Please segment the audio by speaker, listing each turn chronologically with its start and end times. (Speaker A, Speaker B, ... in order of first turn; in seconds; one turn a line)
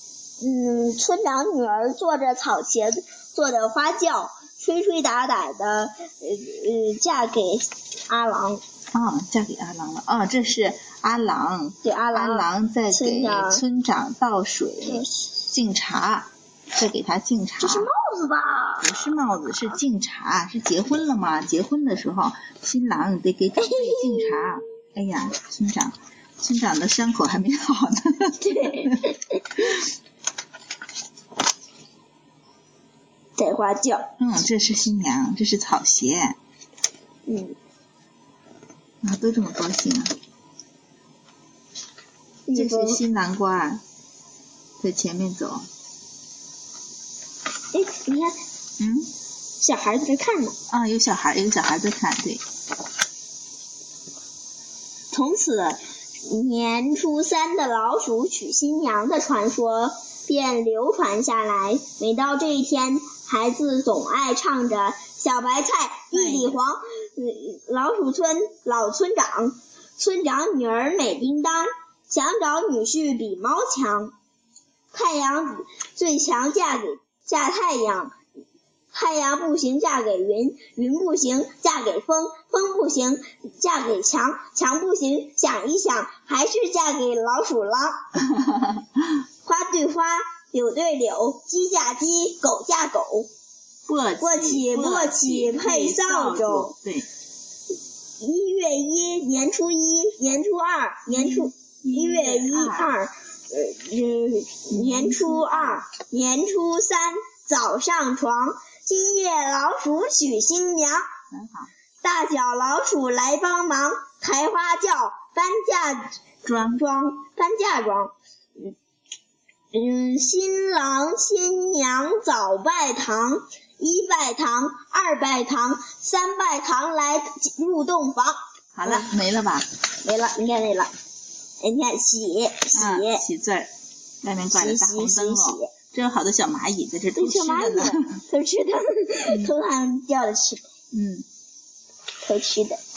Speaker A: 0.4-8.6
Speaker B: 8.9-17.9
Speaker A: 11.8-13.6
Speaker A: 14.8-15.2
Speaker A: 17.6-18.9
Speaker B: 18.8-29.0
Speaker A: 23.6-24.6
Speaker A: 28.4-29.6
Speaker A: 33.4-34.1
Speaker B: 34.2-36.4
Speaker A: 37.3-37.6
Speaker B: 39.0-40.1
Speaker A: 42.5-43.0
Speaker B: 42.5-43.8
Speaker B: 44.8-45.7
Speaker A: 47.7-48.4
Speaker B: 48.8-49.1
Speaker A: 49.6-50.5
Speaker B: 50.7-52.4
Speaker A: 55.1-74.1
Speaker B: 66.1-66.6
Speaker A: 74.9-78.1
Speaker A: 78.9-88.0
Speaker A: 89.4-93.3
Speaker B: 93.9-97.1
Speaker A: 94.2-96.7
Speaker A: 98.2-111.1
Speaker B: 101.1-102.9
Speaker B: 104.7-105.8
Speaker B: 111.3-111.7
Speaker A: 112.0-118.7
Speaker B: 116.4-116.8
Speaker A: 119.7-129.1
Speaker B: 128.7-129.7
Speaker A: 130.0-130.9
Speaker A: 131.6-133.2
Speaker B: 132.7-133.7
Speaker B: 134.2-138.2
Speaker A: 134.5-135.7
Speaker A: 137.1-140.6
Speaker B: 140.9-141.2
Speaker A: 142.2-142.8